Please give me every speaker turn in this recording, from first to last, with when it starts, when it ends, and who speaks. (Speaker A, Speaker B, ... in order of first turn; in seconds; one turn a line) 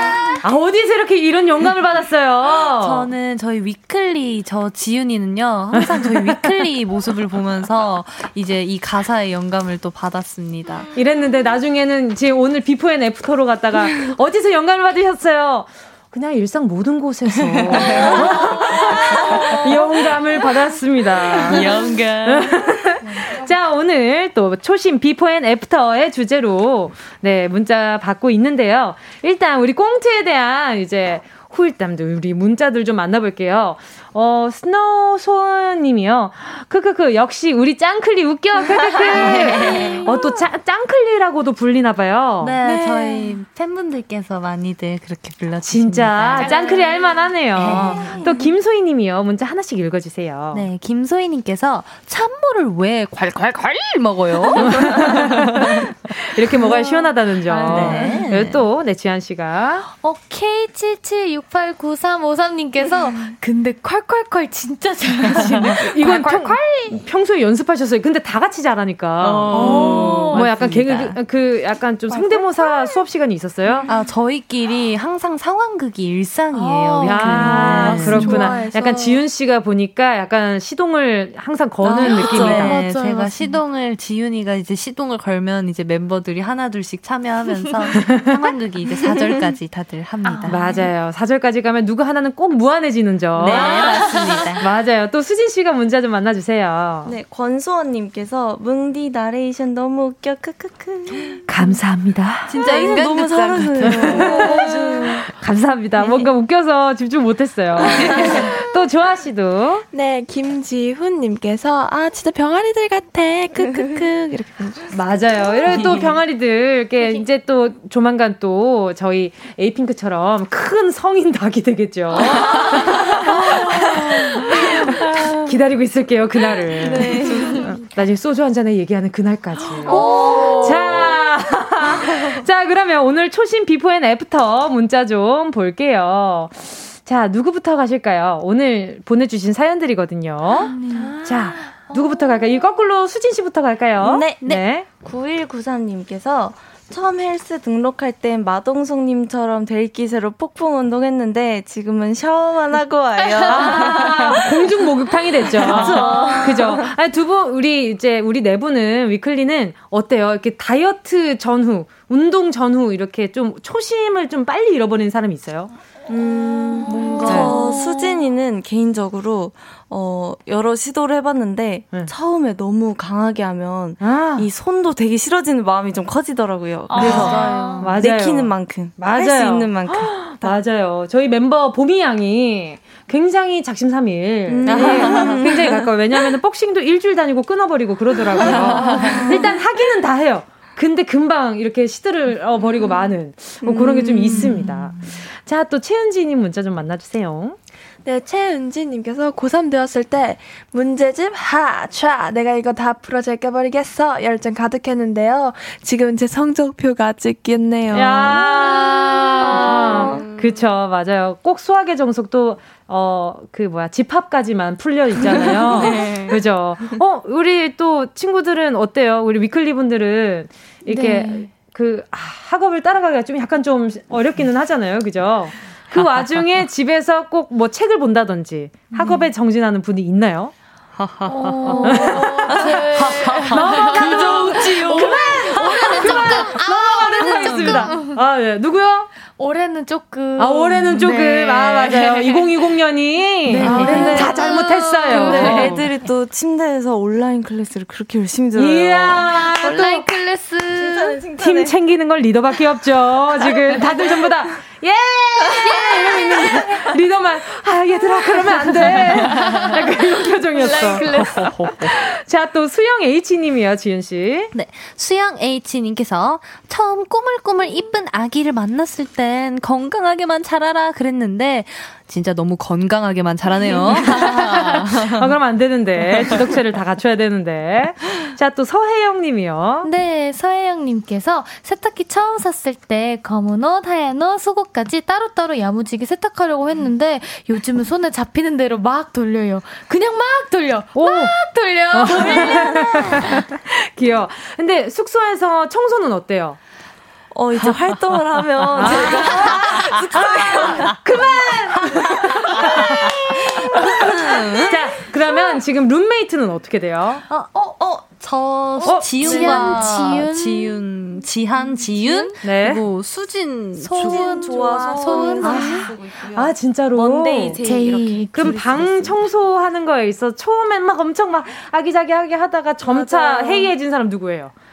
Speaker A: 0.4-3.1
Speaker B: 2.7-10.9
Speaker A: 5.7-6.7
Speaker A: 10.9-42.6
Speaker B: 17.8-19.8
Speaker B: 21.3-22.6
Speaker B: 39.1-40.1
Speaker B: 42.4-46.7
Speaker A: 45.6-50.7
Speaker C: 46.7-47.0
Speaker B: 47.5-48.1
Speaker D: 47.6-48.3
Speaker B: 50.5-55.9
Speaker A: 54.6-59.9
Speaker C: 56.7-58.0
Speaker B: 57.6-58.6
Speaker D: 57.7-58.2
Speaker C: 59.9-67.0
Speaker B: 65.5-66.5
Speaker A: 65.8-73.9
Speaker D: 69.2-70.4
Speaker B: 69.5-71.2
Speaker C: 69.5-70.5
Speaker B: 73.9-78.5
Speaker C: 76.5-78.5
Speaker A: 77.0-82.8
Speaker E: 77.7-79.2
Speaker D: 81.8-82.8
Speaker C: 82.1-83.6
Speaker B: 82.2-90.7
Speaker C: 87.6-88.0
Speaker A: 88.0-88.5
Speaker D: 89.1-89.5
Speaker C: 90.2-90.9
Speaker A: 90.5-97.2
Speaker B: 93.3-94.6
Speaker C: 93.5-94.6
Speaker D: 97.0-101.8
Speaker A: 101.5-102.6
Speaker B: 102.5-105.2
Speaker D: 102.6-105.2
Speaker A: 103.8-104.7
Speaker A: 105.3-109.9
Speaker E: 109.9-114.9
Speaker A: 114.9-144.9
Speaker D: 115.8-116.0
Speaker D: 122.4-122.7
Speaker D: 123.3-123.9
Speaker D: 126.6-127.7
Speaker C: 127.3-127.6
Speaker C: 129.9-130.9
Speaker D: 129.9-131.1
Speaker C: 140.5-142.4
Speaker D: 144.0-154.8
Speaker C: 153.2-154.1
Speaker A: 153.4-165.7
Speaker D: 155.4-156.9
Speaker D: 166.1-180.6
Speaker B: 166.9-167.6
Speaker A: 167.2-167.6
Speaker C: 167.5-168.3
Speaker A: 174.0-174.5
Speaker C: 176.9-177.9
Speaker A: 177.0-197.6
Speaker B: 177.1-177.9
Speaker D: 184.5-185.9
Speaker D: 188.3-189.5
Speaker D: 193.6-194.9
Speaker E: 198.1-208.5
Speaker A: 207.9-230.5
Speaker D: 209.6-210.2
Speaker D: 215.2-216.4
Speaker C: 220.9-221.5
Speaker C: 228.9-229.2
Speaker B: 231.0-232.0
Speaker C: 231.2-238.2
Speaker A: 231.7-239.1
Speaker B: 232.9-235.1
Speaker C: 239.4-242.6
Speaker A: 240.4-245.8
Speaker C: 243.4-246.1
Speaker D: 243.6-244.5
Speaker D: 245.1-250.0
Speaker A: 248.6-250.1
Speaker C: 249.7-251.2
Speaker D: 250.7-251.7
Speaker A: 251.4-264.5
Speaker C: 255.7-256.4
Speaker D: 255.7-256.7
Speaker C: 258.9-259.8
Speaker C: 260.6-261.7
Speaker B: 261.2-261.9
Speaker B: 264.5-275.3
Speaker A: 273.7-279.9
Speaker C: 274.1-274.8
Speaker C: 279.8-293.4
Speaker A: 290.9-291.4
Speaker A: 291.9-296.6
Speaker D: 297.3-301.7
Speaker A: 298.7-307.2
Speaker D: 302.3-304.8
Speaker B: 302.6-304.7
Speaker B: 307.3-307.6
Speaker D: 307.7-308.2
Speaker B: 308.2-314.7
Speaker D: 308.8-309.8
Speaker A: 308.9-309.4
Speaker C: 309.2-310.8
Speaker C: 311.6-312.4
Speaker A: 312.4-312.8
Speaker C: 313.8-315.9
Speaker D: 313.9-319.2
Speaker A: 315.4-317.6
Speaker B: 317.0-317.6
Speaker C: 317.6-318.7
Speaker A: 318.3-324.5
Speaker D: 322.9-323.7